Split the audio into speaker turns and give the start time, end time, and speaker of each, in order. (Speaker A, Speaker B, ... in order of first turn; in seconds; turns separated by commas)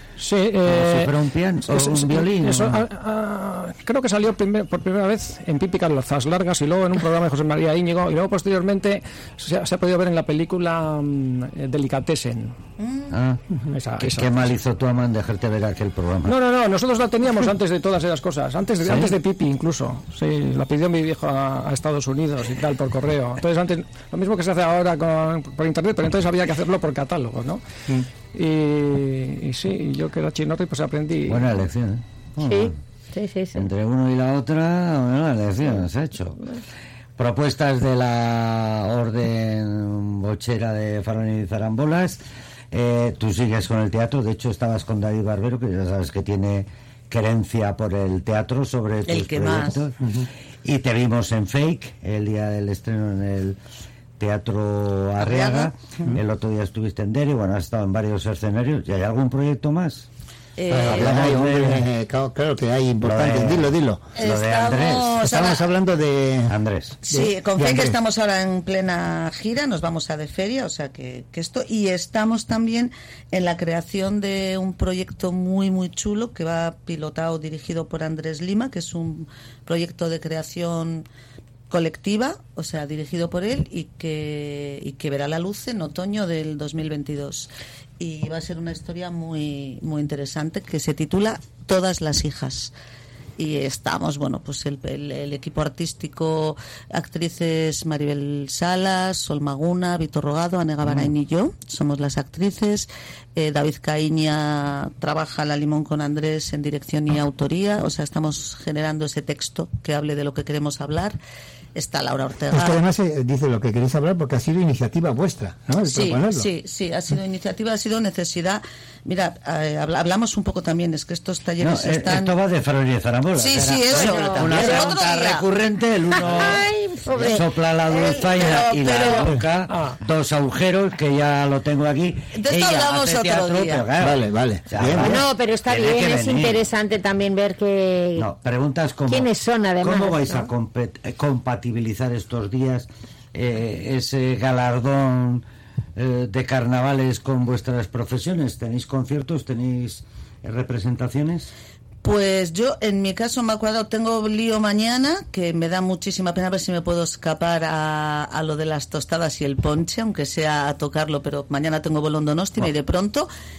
Speaker A: 0.2-12.6, Speaker B: 0.6-2.9, Speaker C: 12.8-13.2, Speaker B: 13.1-13.4, Speaker A: 13.7-14.5, Speaker B: 14.0-16.4, Speaker A: 16.3-27.6, Speaker B: 18.8-19.2, Speaker A: 28.3-31.5, Speaker B: 31.3-32.8, Speaker D: 32.4-33.7, Speaker B: 33.5-36.4, Speaker B: 37.2-50.0, Speaker C: 49.1-49.8, Speaker B: 50.6-53.6, Speaker B: 54.2-60.1, Speaker C: 55.2-56.1, Speaker C: 60.6-61.4, Speaker E: 60.7-64.0, Speaker B: 60.8-61.9, Speaker B: 63.0-65.3, Speaker C: 64.2-65.7, Speaker E: 65.2-66.6, Speaker B: 66.5-67.0, Speaker C: 67.1-81.1, Speaker E: 67.1-68.0, Speaker C: 81.7-87.5, Speaker C: 88.0-92.7, Speaker C: 93.4-111.2, Speaker C: 111.8-112.8, Speaker E: 112.5-116.5, Speaker C: 115.9-122.3, Speaker B: 121.6-126.6, Speaker C: 123.3-125.4, Speaker E: 123.9-124.9, Speaker D: 126.3-127.5, Speaker B: 127.2-136.7, Speaker C: 127.9-129.3, Speaker A: 129.7-130.0, Speaker C: 132.3-133.9, Speaker E: 134.0-135.2, Speaker D: 135.0-138.3, Speaker B: 138.2-139.3, Speaker D: 139.1-140.5, Speaker B: 139.8-151.5, Speaker C: 152.0-163.3